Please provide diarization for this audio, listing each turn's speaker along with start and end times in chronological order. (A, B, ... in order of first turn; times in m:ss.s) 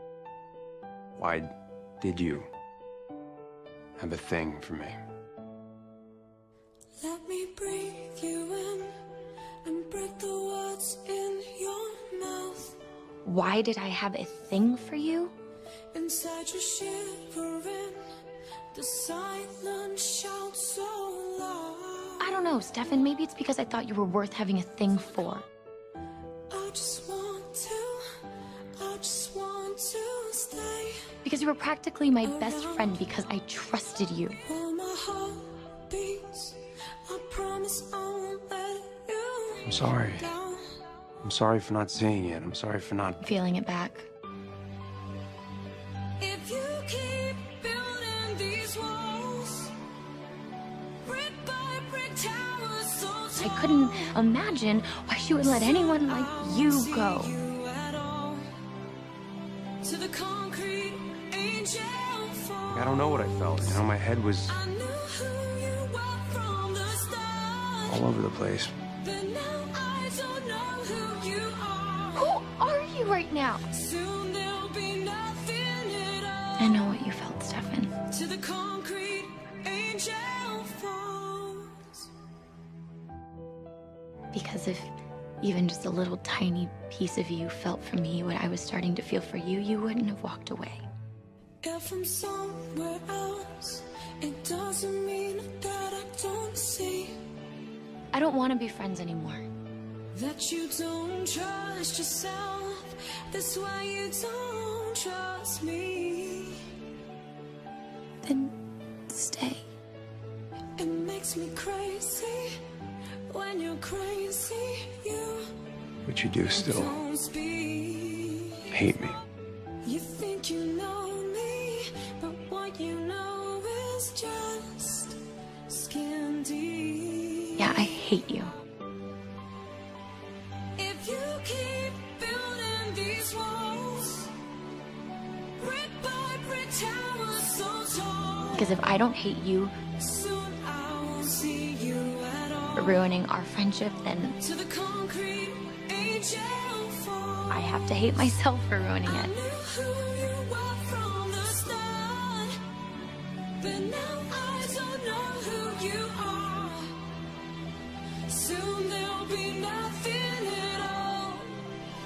0:01.2-0:02.5 A
0:04.0-0:05.0 A
0:07.0-0:09.0 B
0:09.6-0:12.8 B
0:13.2-0:15.3 C
0:15.9-0:18.2 B
0:18.7-0:22.5 B
0:22.2-0:25.4 C
0:26.5-0:28.2 B
0:28.8-0:31.1 B
0:31.2-0:34.4 C
0:32.2-0:33.0 B
0:34.5-0:40.7 B
0:39.7-0:40.3 A
0:41.2-0:43.2 A
0:43.2-0:44.1 C
0:46.2-0:49.8 B
0:51.0-0:54.0 B
0:53.4-0:57.4 C
0:55.4-0:58.5 B
0:59.8-1:03.8 B
1:02.7-1:04.6 A
1:04.5-1:08.1 B
1:07.9-1:08.7 A
1:09.0-1:12.4 B
1:12.2-1:13.7 C
1:13.7-1:16.8 B
1:16.6-1:18.0 C
1:18.0-1:22.0 B
1:24.3-1:24.9 C
1:25.4-1:30.8 C
1:31.6-1:37.2 B
1:38.1-1:39.5 C
1:40.1-1:46.7 B
1:48.2-1:48.5 C
1:49.1-1:49.7 C
1:50.8-1:52.6 B
1:53.3-1:55.5 B
1:56.1-1:57.0 A
1:56.5-1:58.8 B
1:58.7-1:59.2 A
1:59.8-2:07.9 B
2:07.6-2:08.6 C
2:10.8-2:14.4 B
2:15.6-2:18.8 B
2:18.5-2:19.8 C
2:20.0-2:23.1 B
2:22.8-2:24.4 C
2:24.4-2:28.3 B
2:27.5-2:29.4 C
2:29.0-2:32.6 B
2:33.6-2:37.1 B
2:38.3-2:41.7 B